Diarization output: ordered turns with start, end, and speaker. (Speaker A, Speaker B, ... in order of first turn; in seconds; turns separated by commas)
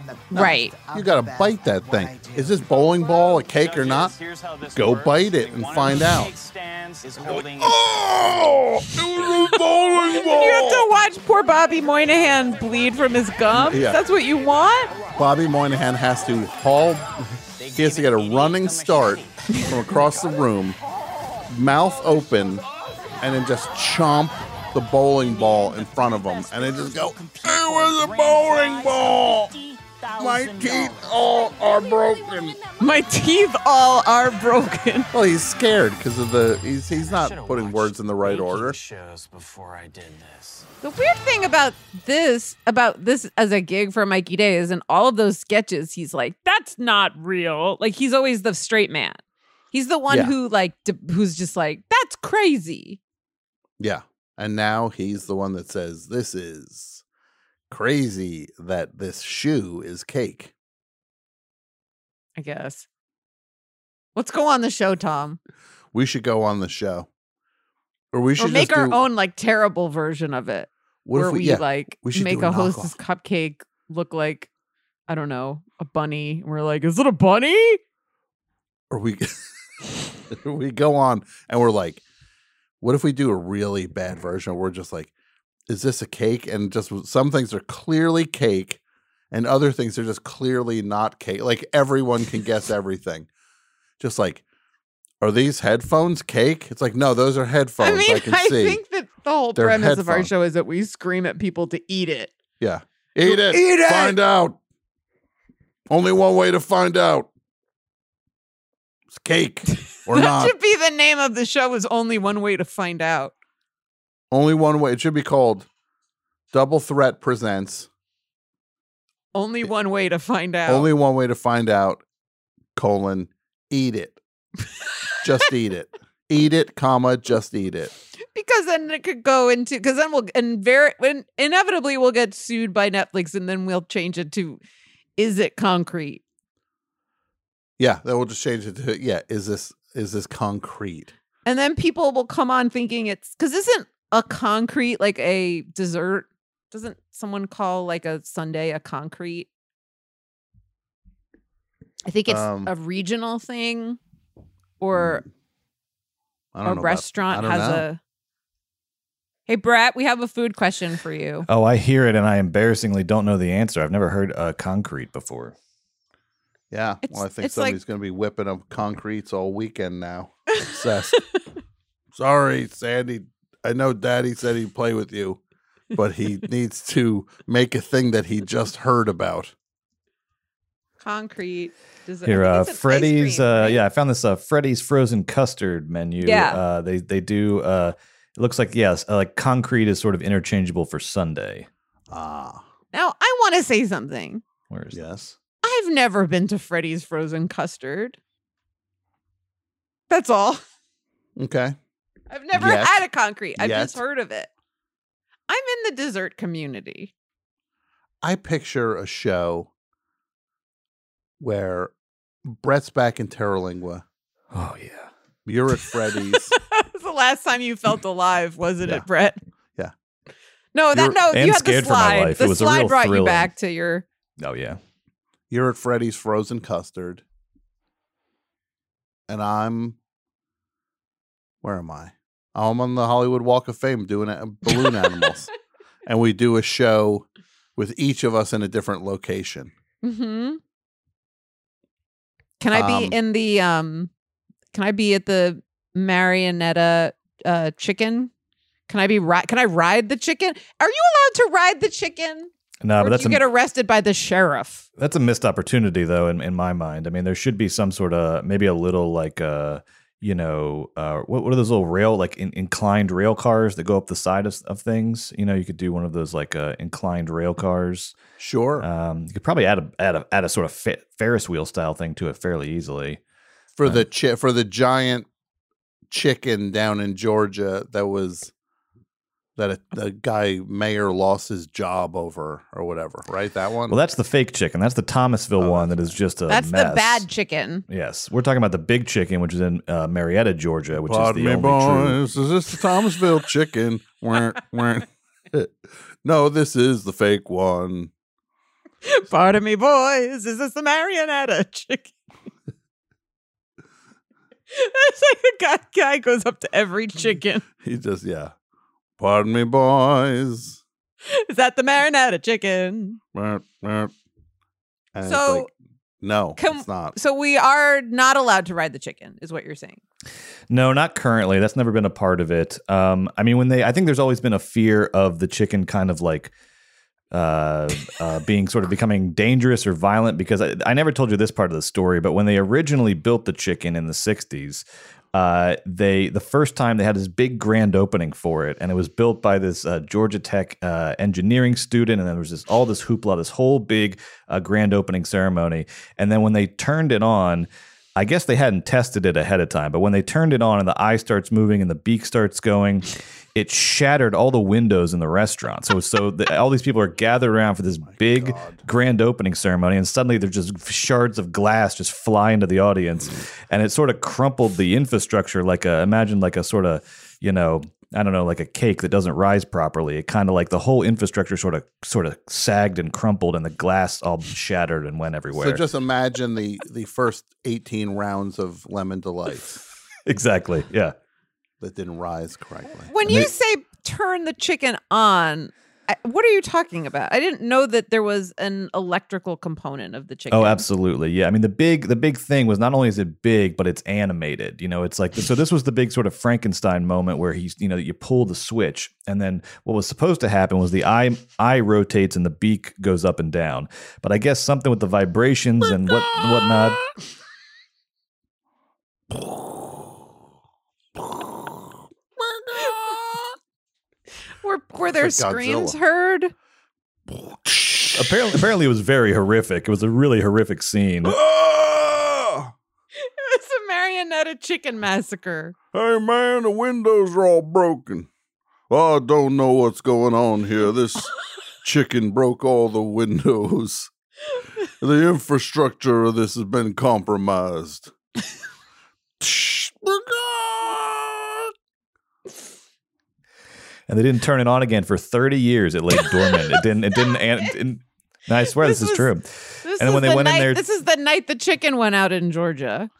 Speaker A: 0.3-4.2, Speaker B: 0.3-0.8, Speaker C: 3.0-8.1, Speaker A: 4.7-6.3, Speaker A: 7.2-10.9, Speaker B: 10.0-14.9, Speaker A: 13.5-14.0, Speaker A: 15.2-20.8, Speaker C: 17.6-19.5, Speaker A: 21.5-22.6, Speaker A: 23.2-29.5, Speaker C: 25.2-32.6, Speaker A: 30.2-32.6, Speaker B: 32.8-35.1, Speaker A: 35.1-38.8, Speaker C: 37.0-40.7, Speaker B: 40.8-49.2, Speaker B: 49.7-53.0, Speaker A: 50.1-50.3, Speaker A: 53.8-57.0, Speaker A: 57.7-60.5, Speaker B: 62.4-62.9, Speaker B: 64.2-65.4, Speaker A: 65.9-67.1, Speaker A: 68.1-69.0, Speaker B: 68.4-74.5, Speaker A: 71.0-73.0, Speaker B: 75.1-77.8, Speaker A: 78.9-79.4, Speaker A: 80.3-82.0, Speaker A: 82.8-85.1, Speaker A: 85.7-93.3, Speaker A: 94.0-94.4, Speaker A: 95.2-98.8, Speaker B: 97.8-102.4, Speaker A: 99.5-100.3, Speaker A: 102.6-104.6, Speaker B: 103.3-104.2, Speaker A: 105.9-107.3, Speaker A: 109.1-110.5, Speaker B: 110.1-113.3, Speaker A: 114.3-115.7, Speaker A: 116.5-117.9, Speaker B: 119.3-120.9, Speaker A: 120.7-122.0, Speaker A: 122.8-124.2, Speaker A: 125.2-127.9, Speaker B: 128.3-134.6, Speaker B: 135.2-136.2, Speaker A: 137.8-141.1, Speaker B: 141.4-149.5, Speaker B: 152.1-154.0, Speaker A: 152.3-152.7, Speaker B: 154.8-155.2, Speaker A: 156.5-157.9, Speaker B: 156.7-158.0, Speaker B: 159.5-161.5, Speaker D: 161.5-165.6, Speaker A: 166.7-171.2, Speaker B: 167.0-167.8, Speaker A: 172.1-175.4, Speaker A: 175.9-179.5, Speaker B: 181.0-183.8, Speaker D: 182.2-191.7, Speaker B: 186.2-186.6, Speaker A: 192.1-192.6, Speaker B: 192.9-194.4, Speaker D: 194.7-195.3, Speaker A: 194.9-195.2, Speaker B: 195.6-198.2, Speaker B: 200.1-200.6, Speaker A: 201.4-201.8, Speaker B: 202.3-204.5, Speaker A: 202.5-204.0, Speaker B: 205.5-207.1, Speaker A: 208.2-209.7, Speaker A: 211.4-211.9, Speaker A: 212.4-214.1, Speaker D: 214.5-215.1, Speaker A: 215.4-216.5, Speaker B: 216.2-219.4, Speaker B: 220.7-224.1, Speaker D: 220.9-223.5, Speaker D: 224.4-224.8, Speaker A: 225.5-227.2, Speaker A: 229.3-230.0, Speaker A: 231.6-235.5, Speaker B: 234.7-235.3, Speaker A: 236.1-239.7, Speaker B: 240.0-240.6, Speaker B: 242.6-244.1, Speaker A: 242.7-243.2, Speaker B: 244.7-248.3, Speaker B: 248.9-254.8, Speaker D: 252.8-253.4, Speaker D: 255.0-268.1, Speaker A: 268.4-268.9, Speaker D: 268.8-273.2, Speaker A: 273.8-275.3, Speaker A: 276.1-278.5, Speaker A: 279.6-284.0, Speaker D: 283.9-287.2, Speaker A: 285.6-286.2, Speaker B: 286.5-287.9, Speaker D: 287.9-292.2, Speaker A: 290.9-298.1, Speaker B: 299.0-302.1, Speaker B: 304.7-307.6, Speaker A: 307.8-308.5, Speaker A: 309.2-310.8, Speaker B: 311.3-313.2, Speaker A: 313.3-314.1, Speaker A: 315.1-315.7, Speaker B: 315.2-315.7, Speaker A: 316.2-317.2, Speaker B: 316.6-320.0, Speaker D: 320.7-326.5, Speaker D: 327.3-375.8, Speaker A: 358.0-358.8, Speaker A: 375.5-379.8, Speaker D: 380.3-381.1, Speaker A: 381.8-383.1, Speaker B: 383.0-390.9, Speaker D: 390.5-407.0, Speaker A: 405.8-407.0, Speaker A: 409.3-410.0, Speaker A: 411.2-411.8, Speaker A: 412.4-413.5, Speaker B: 414.6-416.5, Speaker A: 415.1-416.0, Speaker A: 417.3-418.6, Speaker D: 418.1-421.4, Speaker A: 421.2-422.7, Speaker B: 423.2-425.8, Speaker A: 425.9-428.3, Speaker A: 428.9-431.3, Speaker A: 431.8-434.1, Speaker A: 435.0-438.1, Speaker A: 439.4-441.7, Speaker D: 444.1-450.8, Speaker B: 446.2-447.7, Speaker B: 448.8-449.3, Speaker B: 449.8-453.1